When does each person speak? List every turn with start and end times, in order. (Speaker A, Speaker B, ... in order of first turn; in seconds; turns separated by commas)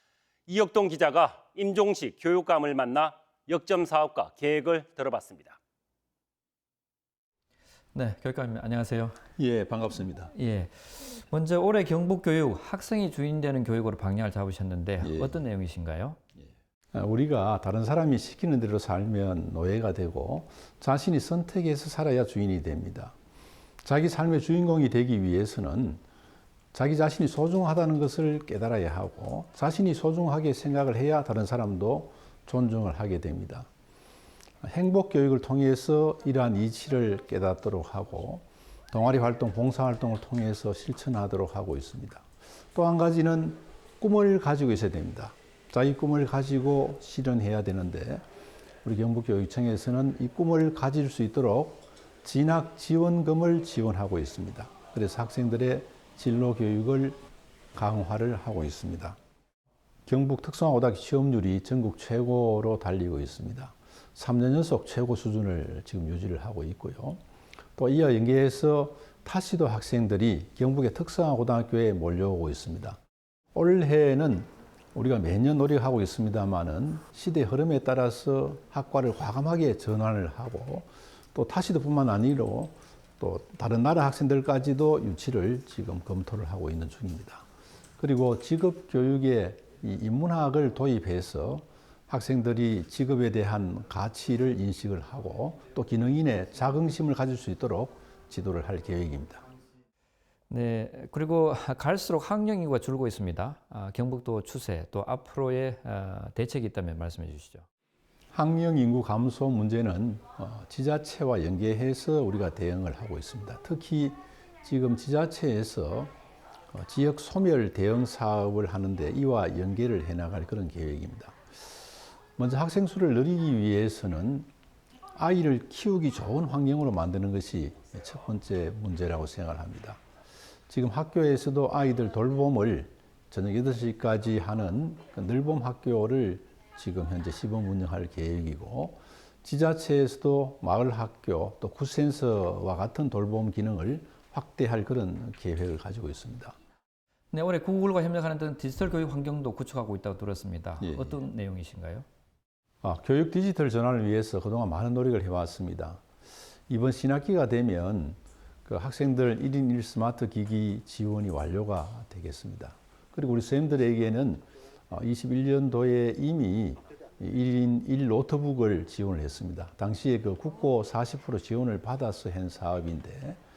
Speaker A: 0.5-5.6, Speaker B: 7.9-9.2, Speaker C: 9.4-10.3, Speaker B: 10.3-16.2, Speaker C: 15.0-15.4, Speaker C: 16.9-23.1, Speaker C: 23.8-26.0, Speaker C: 26.7-33.7, Speaker C: 34.6-48.2, Speaker C: 48.8-57.2, Speaker C: 57.8-59.2, Speaker C: 60.1-67.2, Speaker C: 67.8-73.0, Speaker C: 73.5-87.4, Speaker C: 88.0-99.4, Speaker B: 100.5-107.6, Speaker C: 108.3-116.1, Speaker C: 116.7-121.4, Speaker C: 122.4-124.5, Speaker C: 125.1-130.0, Speaker C: 130.7-146.6, Speaker B: 147.3-152.1, Speaker C: 150.8-151.2, Speaker C: 152.8-156.0, Speaker C: 156.7-173.4